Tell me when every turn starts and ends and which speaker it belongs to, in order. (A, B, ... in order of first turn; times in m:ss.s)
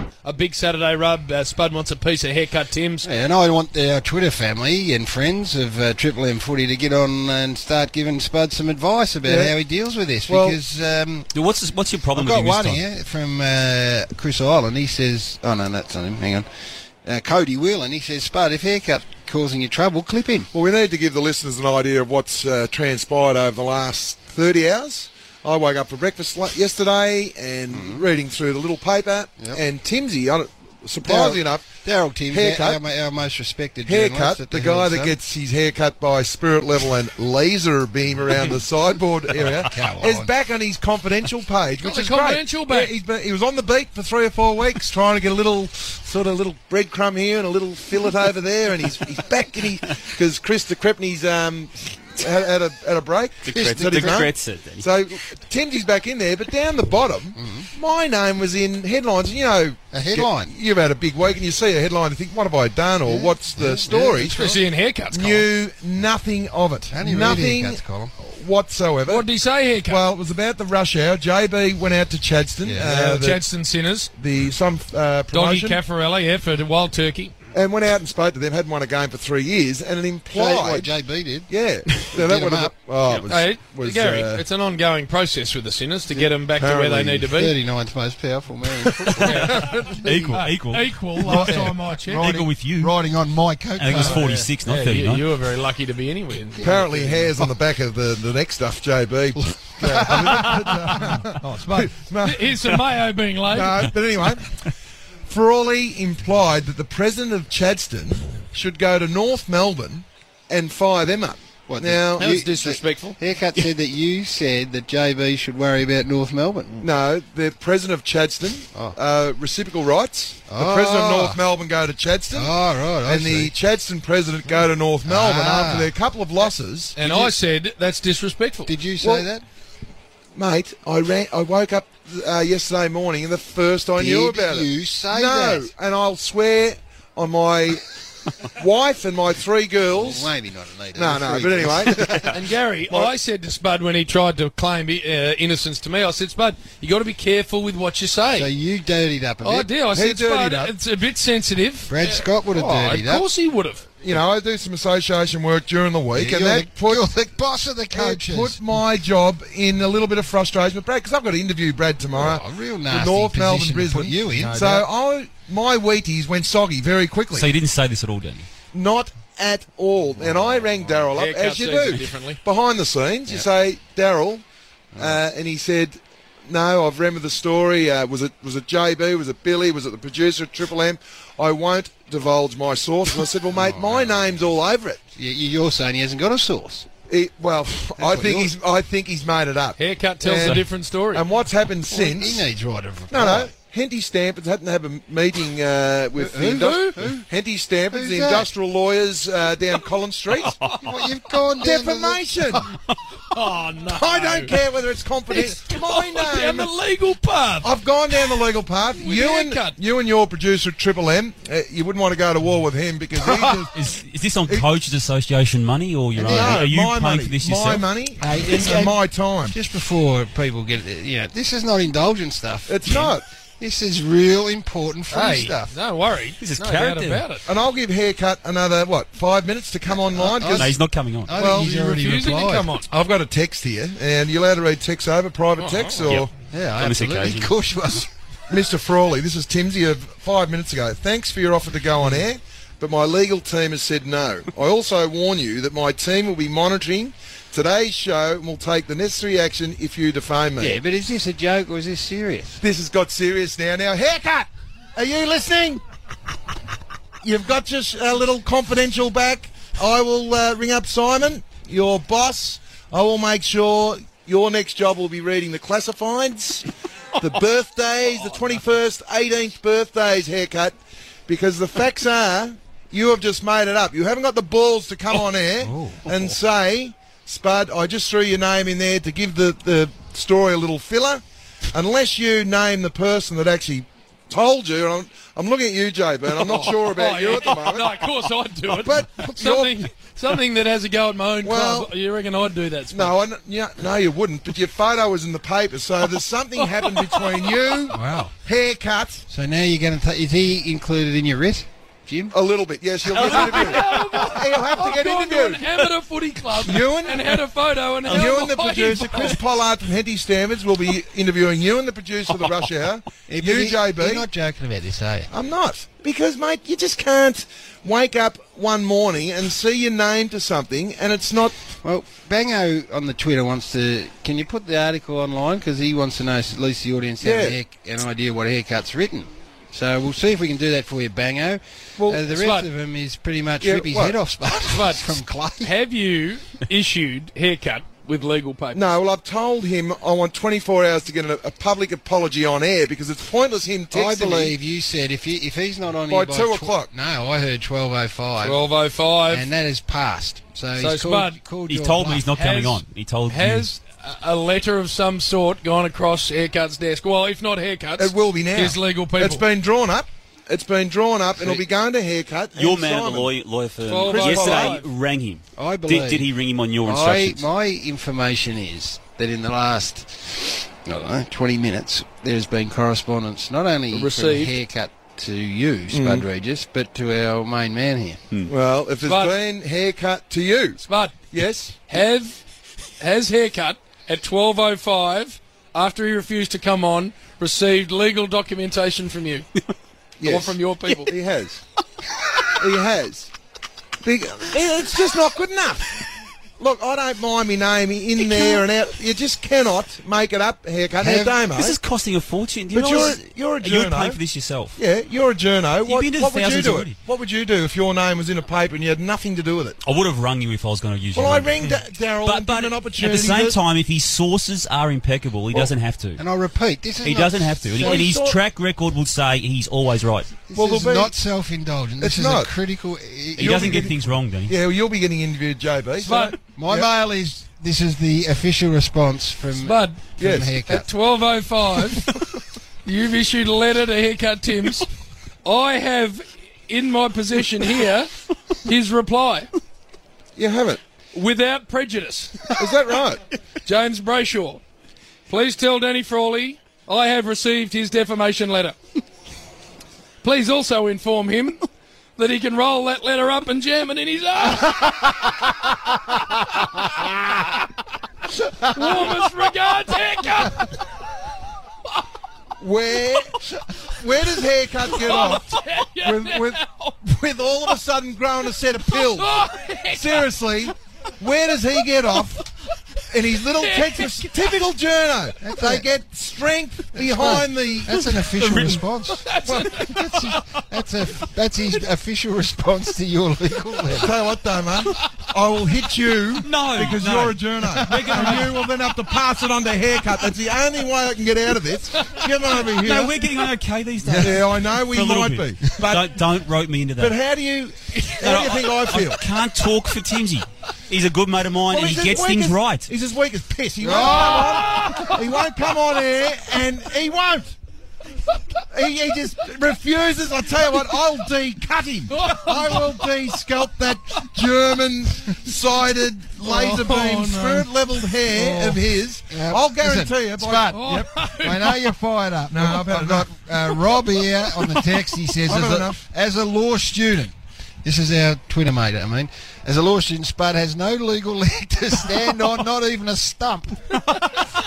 0:00.2-0:03.1 A
0:03.0-0:11.3 B
0:09.2-0:09.6 C
0:10.3-0:10.6 C
0:11.3-0:12.8 D
0:12.1-0:16.4 B
0:17.0-0:20.5 B
0:20.5-0:31.6 C
0:27.7-0:28.0 B
0:31.0-0:35.2 B
0:32.3-0:32.8 C
0:33.8-1:04.6 C
0:39.4-0:40.3 B
0:41.8-0:42.9 A
0:53.4-0:54.9 D
0:53.5-0:54.3 B
0:57.4-0:57.7 B
0:59.9-1:00.5 B
1:03.0-1:04.6 B
1:04.3-1:05.5 A
1:05.1-1:09.3 C
1:06.9-1:08.1 B
1:09.0-1:10.0 A
1:09.8-1:13.4 C
1:12.6-1:12.9 B
1:12.8-1:14.1 A
1:14.1-1:15.8 C
1:15.3-1:17.3 A
1:17.5-1:20.9 C
1:20.3-1:21.5 B
1:21.5-1:24.4 C
1:22.1-1:22.7 B
1:23.3-1:27.5 A
1:26.5-1:27.3 C
1:27.3-1:30.4 B
1:29.1-1:30.0 C
1:29.2-1:29.5 A
1:29.2-1:32.9 D
1:30.6-1:32.3 A
1:31.2-1:34.5 B
1:31.3-1:31.7 C
1:33.8-1:35.2 D
1:33.9-1:36.8 A
1:36.6-1:37.5 B
1:36.6-1:42.8 C
1:39.8-1:40.8 B
1:41.3-1:43.9 A
1:43.5-1:44.7 C
1:45.2-1:52.3 C
1:51.7-1:56.8 B
1:52.2-1:53.2 A
1:56.8-2:02.5 C
2:00.5-2:01.4 B
2:02.3-2:03.5 B
2:03.0-2:07.3 C
2:05.0-2:05.9 B
2:07.0-2:08.7 A
2:08.7-2:09.4 B
2:09.0-2:09.3 C
2:10.4-2:20.3 C
2:14.0-2:15.7 B
2:19.9-2:22.4 B
2:20.9-2:23.1 C
2:22.3-2:28.5 A
2:28.3-2:29.7 B
2:29.4-2:33.8 A
2:29.9-2:30.7 C
2:31.9-2:33.2 B
2:34.0-2:37.0 C
2:36.1-2:38.8 B
2:37.9-2:47.5 C
2:42.0-2:44.9 B
2:47.3-2:48.4 D
2:48.7-2:54.4 C
2:51.1-2:52.4 A
2:54.9-2:55.2 B
2:55.0-3:05.0 C
3:03.5-3:04.4 B
3:05.2-3:06.8 B
3:07.1-3:12.4 C
3:08.0-3:08.5 B
3:09.8-3:11.2 A
3:11.9-3:13.5 B
3:13.1-3:20.6 C
3:16.2-3:17.2 B
3:17.9-3:18.5 B
3:20.8-3:22.7 B
3:21.6-3:22.7 C
3:23.3-3:24.6 A
3:23.9-3:26.7 C
3:25.3-3:28.4 A
3:27.6-3:33.7 C
3:29.0-3:29.8 A
3:33.7-3:37.9 D
3:36.1-3:36.6 B
3:36.2-3:39.5 C
3:38.2-3:45.7 B
3:42.7-3:43.2 C
3:45.1-3:47.4 A
3:46.4-3:47.2 D
3:47.4-3:50.7 C
3:49.9-3:52.7 B
3:50.4-3:51.3 D
3:51.3-3:51.7 C
3:51.4-3:52.8 A
3:52.9-3:56.3 C
3:55.6-3:56.1 A
3:56.5-3:58.1 B
3:56.8-3:57.5 D
3:58.5-4:10.8 C
4:10.6-4:12.6 B
4:12.6-4:15.8 C
4:17.2-4:26.7 C
4:27.2-4:30.7 C
4:31.3-4:47.9 C
4:35.6-4:36.2 B
4:46.3-4:53.2 A
4:48.7-4:49.8 C
4:51.4-4:51.9 C
4:52.9-4:59.2 C
4:56.6-4:57.5 A
4:57.9-4:58.3 B
4:59.3-5:02.3 B
5:02.3-5:05.9 C
5:03.1-5:09.4 A
5:06.6-5:07.4 C
5:08.1-5:09.3 D
5:08.1-5:14.3 C
5:13.3-5:15.3 B
5:15.3-5:21.6 C
5:21.8-5:35.7 B
5:27.2-5:27.6 C
5:32.0-5:32.2 C
5:32.3-5:32.7 A
5:33.6-5:34.2 C
5:34.7-5:38.9 A
5:38.7-5:44.5 C
5:43.9-5:48.6 B
5:46.1-5:46.9 C
5:48.4-5:49.5 A
5:49.3-5:52.3 B
5:50.8-5:51.4 A
5:51.7-5:53.7 D
5:52.3-5:59.4 A
5:58.0-6:03.3 C
6:01.4-6:01.6 D
6:02.5-6:07.5 D
6:03.8-6:04.9 A
6:04.0-6:04.8 C
6:05.6-6:06.3 B
6:06.8-6:18.2 B
6:13.9-6:14.6 A
6:15.9-6:16.2 C
6:18.5-6:20.8 C
6:19.0-6:19.4 A
6:20.8-6:21.2 A
6:21.3-6:21.8 C
6:21.9-6:22.4 A
6:23.0-6:29.5 A
6:30.2-6:31.6 C
6:30.2-6:31.1 A
6:32.5-6:33.3 C
6:34.0-6:36.1 C
6:36.6-6:41.8 C
6:38.3-6:38.6 D
6:41.0-6:44.8 D
6:42.7-6:44.2 C
6:44.8-6:49.8 C
6:45.8-6:47.0 D
6:49.8-6:56.2 D
6:51.1-6:53.6 C
6:56.2-6:58.0 B
6:57.0-7:00.4 D
6:57.7-6:58.4 C
7:00.5-7:03.9 B
7:00.5-7:01.1 C
7:02.0-7:02.5 C
7:03.4-7:06.9 C
7:03.4-7:04.5 D
7:06.0-7:06.4 A
7:06.5-7:10.9 B
7:09.6-7:10.0 A
7:10.2-7:10.6 C
7:10.6-7:12.1 A
7:12.8-7:14.9 A
7:15.4-7:19.5 A
7:20.4-7:20.8 C
7:21.1-7:22.5 A
7:22.6-7:23.2 C
7:23.6-7:24.6 A
7:25.3-7:28.8 A
7:30.2-7:31.6 A
7:32.2-7:35.5 A
7:38.4-7:39.1 B
7:38.6-7:40.8 A
7:42.6-7:52.4 C
7:44.9-7:46.9 A
7:48.9-7:50.3 A
7:53.1-7:58.1 C
7:53.6-7:54.5 A
7:55.4-7:55.9 B
7:56.9-8:04.2 B
7:58.2-7:58.8 D
7:59.2-8:00.0 A
7:59.4-7:59.9 C
8:03.9-8:13.3 C
8:06.4-8:08.7 D
8:12.8-8:17.2 D
8:14.0-8:14.4 B
8:14.2-8:16.1 C
8:17.0-8:19.2 C
8:18.0-8:18.4 A
8:18.2-8:22.9 D
8:21.7-8:27.6 C
8:23.8-8:25.0 B
8:23.9-8:25.2 A
8:28.7-8:41.1 C
8:32.1-8:33.1 A
8:36.4-8:37.7 B
8:36.7-8:37.1 A
8:38.3-8:40.8 B
8:40.7-8:41.7 A
8:41.4-8:54.2 B
8:42.5-8:44.0 C
8:45.4-8:46.0 C